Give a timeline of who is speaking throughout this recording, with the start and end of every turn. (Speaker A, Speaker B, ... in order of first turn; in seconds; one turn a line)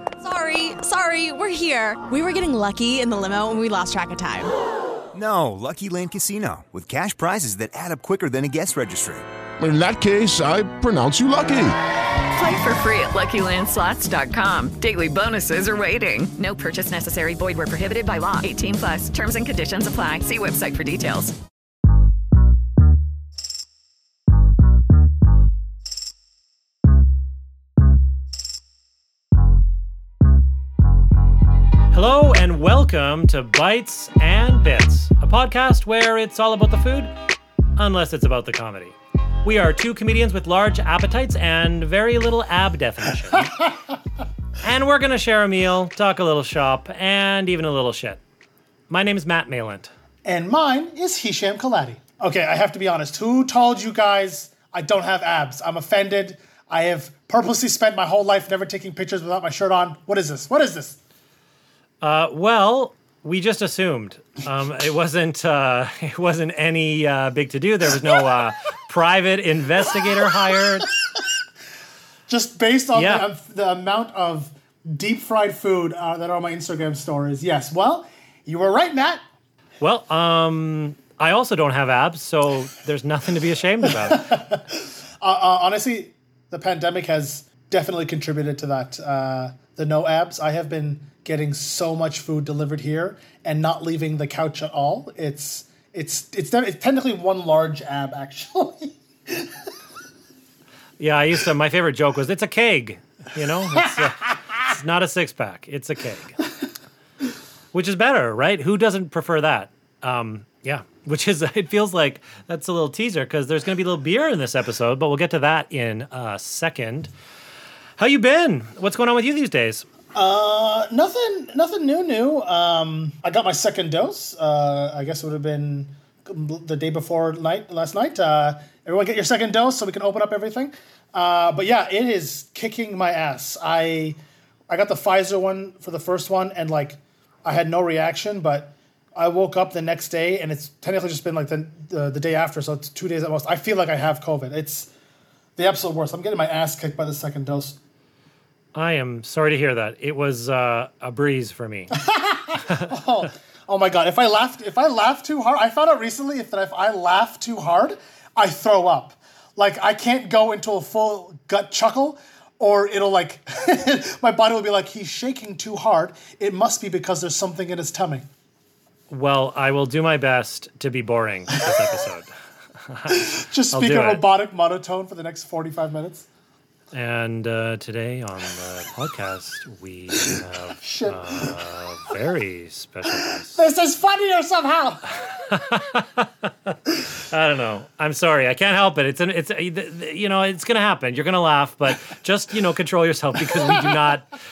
Speaker A: 0.2-4.5
Speaker B: 5.1-9.2
Speaker C: 9.6-11.8
Speaker D: 12.3-21.4
Speaker E: 31.9-37.1
Speaker E: 37.8-43.5
Speaker F: 43.4-43.9
Speaker E: 44.6-48.2
Speaker E: 48.9-49.9
Speaker F: 50.2-61.0
Speaker E: 62.0-70.9
Speaker F: 72.3-79.2
Speaker E: 72.9-73.2
Speaker E: 79.8-84.4
Speaker F: 83.9-99.5
Speaker E: 101.0-106.4
Speaker E: 107.7-117.1
Speaker E: 118.0-119.8
Speaker F: 120.1-144.9
Speaker F: 145.6-147.8
Speaker E: 148.8-151.9
Speaker F: 151.9-168.3
Speaker E: 169.1-174.2
Speaker F: 173.1-176.3
Speaker E: 176.9-183.6
Speaker F: 180.8-181.6
Speaker F: 183.1-185.3
Speaker E: 185.3-194.3